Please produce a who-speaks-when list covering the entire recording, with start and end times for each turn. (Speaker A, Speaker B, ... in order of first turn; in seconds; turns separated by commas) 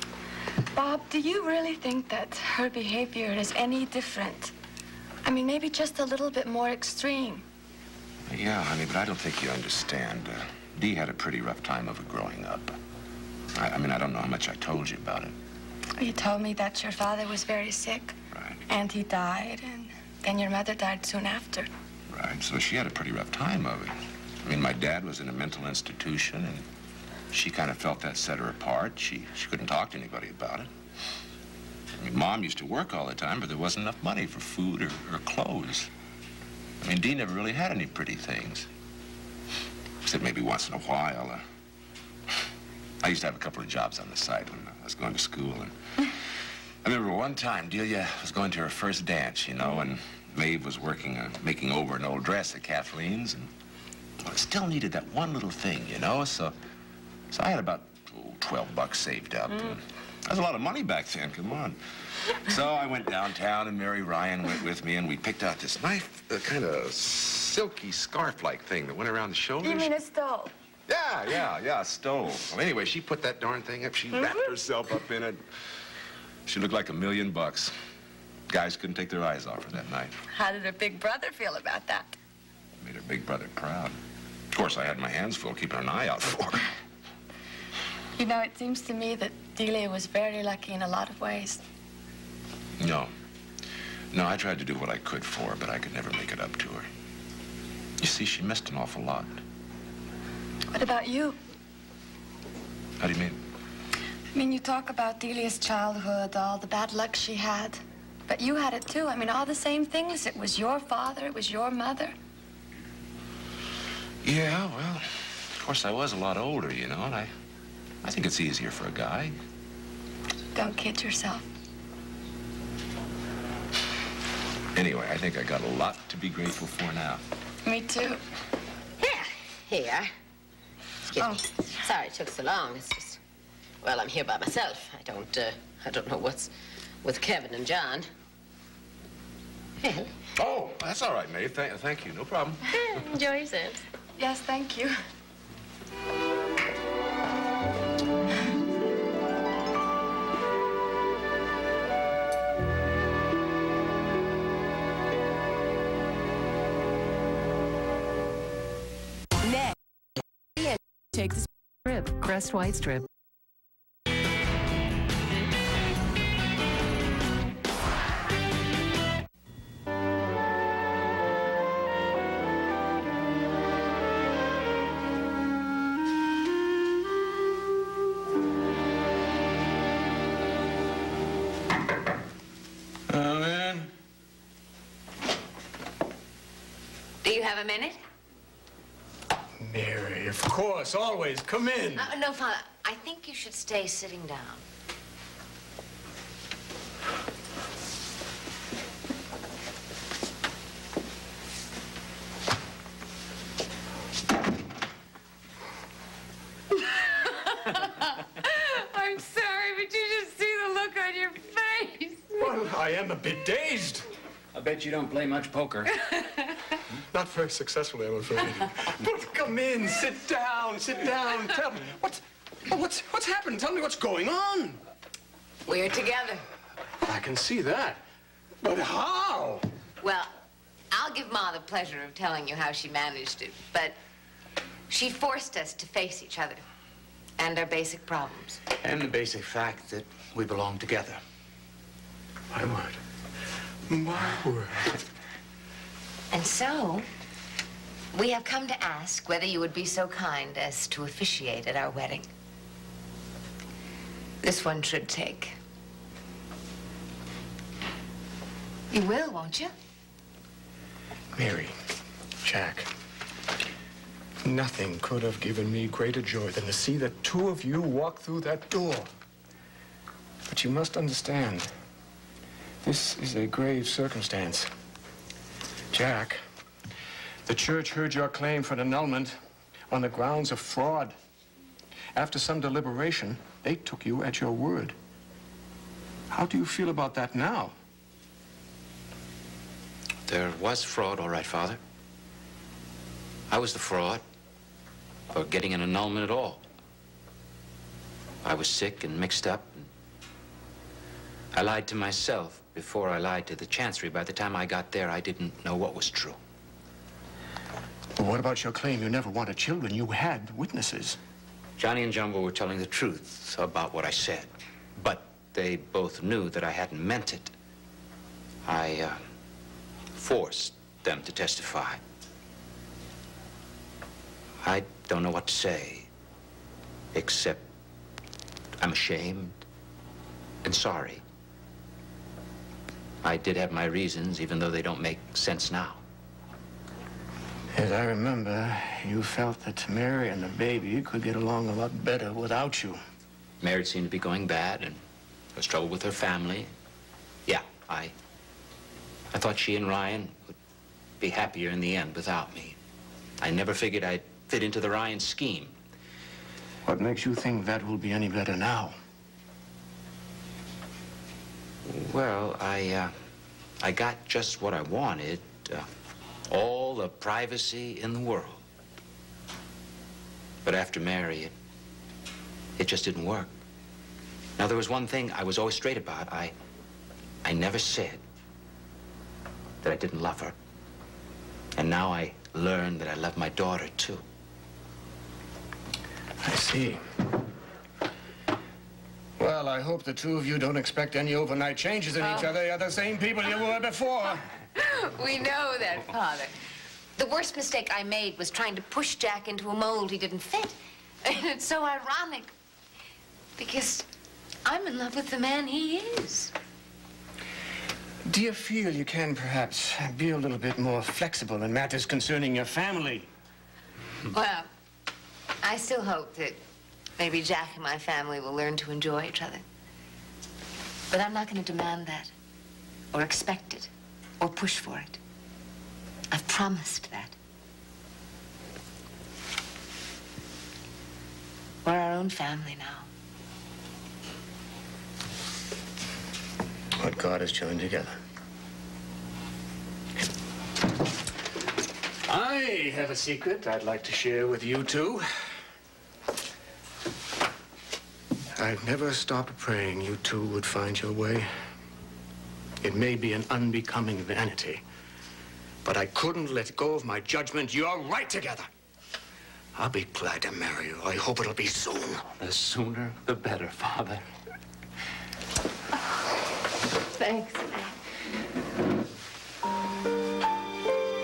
Speaker A: 0.7-4.5, Speaker A: 5.2-7.4, Speaker B: 8.3-12.8, Speaker B: 13.5-15.3, Speaker A: 16.0-18.1, Speaker A: 18.7-21.7, Speaker B: 22.1-26.6, Speaker B: 27.3-30.7, Speaker B: 32.0-35.9, Speaker B: 36.8-38.7, Speaker B: 40.0-41.4, Speaker B: 43.0-45.7, Speaker B: 46.8-53.5, Speaker B: 54.2-56.5, Speaker B: 57.3-61.8, Speaker B: 62.4-69.9, Speaker A: 69.6-70.5, Speaker B: 70.9-75.4, Speaker B: 76.5-77.7, Speaker B: 78.5-80.1, Speaker A: 80.3-82.1, Speaker B: 82.8-84.0, Speaker B: 84.5-86.7, Speaker A: 88.2-91.6, Speaker B: 92.8-93.1, Speaker B: 94.1-96.9, Speaker B: 98.0-99.4, Speaker A: 100.7-101.4, Speaker B: 103.0-103.4, Speaker A: 104.3-112.1, Speaker B: 114.2-117.3, Speaker B: 118.0-119.3, Speaker A: 120.5-121.4, Speaker B: 124.7-127.2, Speaker A: 127.6-128.2, Speaker C: 129.0-130.1, Speaker C: 131.1-133.2, Speaker C: 133.8-136.5, Speaker C: 137.0-138.1, Speaker C: 139.8-140.1, Speaker B: 140.4-142.6, Speaker C: 142.7-143.8, Speaker A: 144.2-144.9, Speaker D: 183.1-183.9, Speaker E: 187.2-188.0, Speaker D: 189.6-192.1, Speaker E: 191.9-194.6, Speaker E: 207.7-207.9, Speaker E: 208.4-212.3, Speaker D: 212.3-214.1, Speaker F: 214.5-215.9, Speaker D: 217.1-224.8, Speaker E: 225.6-226.4, Speaker D: 227.0-228.0, Speaker D: 228.6-229.6, Speaker E: 230.0-230.3, Speaker E: 230.9-233.9, Speaker E: 234.9-236.6, Speaker E: 237.4-238.6, Speaker F: 238.8-241.2, Speaker D: 242.5-243.0, Speaker D: 243.9-244.9, Speaker E: 246.3-247.1, Speaker E: 248.1-252.3, Speaker E: 254.4-255.6, Speaker E: 258.9-259.7, Speaker D: 261.3-261.7, Speaker D: 262.4-262.9, Speaker D: 264.4-269.1, Speaker D: 270.5-271.7, Speaker D: 272.8-274.7, Speaker D: 275.9-276.4, Speaker D: 277.4-279.4, Speaker D: 279.9-281.1, Speaker D: 282.1-284.9, Speaker D: 286.3-287.7, Speaker F: 290.3-291.8, Speaker F: 293.5-294.2, Speaker F: 295.3-296.6, Speaker F: 298.4-299.9, Speaker F: 301.5-306.4, Speaker D: 308.2-311.2, Speaker F: 311.8-317.5, Speaker F: 318.6-319.2, Speaker F: 320.1-322.0, Speaker F: 324.6-326.1, Speaker F: 327.1-327.7, Speaker F: 328.8-329.6, Speaker F: 330.6-331.2, Speaker F: 333.2-336.0, Speaker D: 337.7-343.0, Speaker F: 343.6-345.0, Speaker F: 345.5-346.7, Speaker F: 347.5-348.1, Speaker F: 349.3-350.6, Speaker F: 351.2-352.8, Speaker F: 353.4-355.7, Speaker D: 356.8-358.9, Speaker F: 361.8-363.1, Speaker F: 363.8-365.9, Speaker F: 366.5-368.6, Speaker F: 370.6-371.5, Speaker F: 372.8-373.5, Speaker F: 374.6-376.5, Speaker F: 377.4-378.2, Speaker F: 379.8-380.6, Speaker F: 381.8-384.2, Speaker D: 386.4-387.0, Speaker D: 389.4-394.4, Speaker E: 392.2-392.6, Speaker E: 394.7-396.5, Speaker E: 397.2-402.5, Speaker E: 403.6-404.1, Speaker E: 404.6-406.5, Speaker D: 408.3-413.3, Speaker E: 414.3-414.7, Speaker E: 415.6-416.6, Speaker E: 417.2-419.6, Speaker E: 421.1-422.3, Speaker E: 423.1-425.2, Speaker E: 426.3-427.4, Speaker E: 431.8-433.1, Speaker D: 437.0-438.1, Speaker D: 442.3-445.3, Speaker D: 448.6-451.5, Speaker D: 452.8-454.8, Speaker D: 455.8-458.7, Speaker D: 459.8-462.2, Speaker F: 462.4-464.2, Speaker E: 467.1-468.0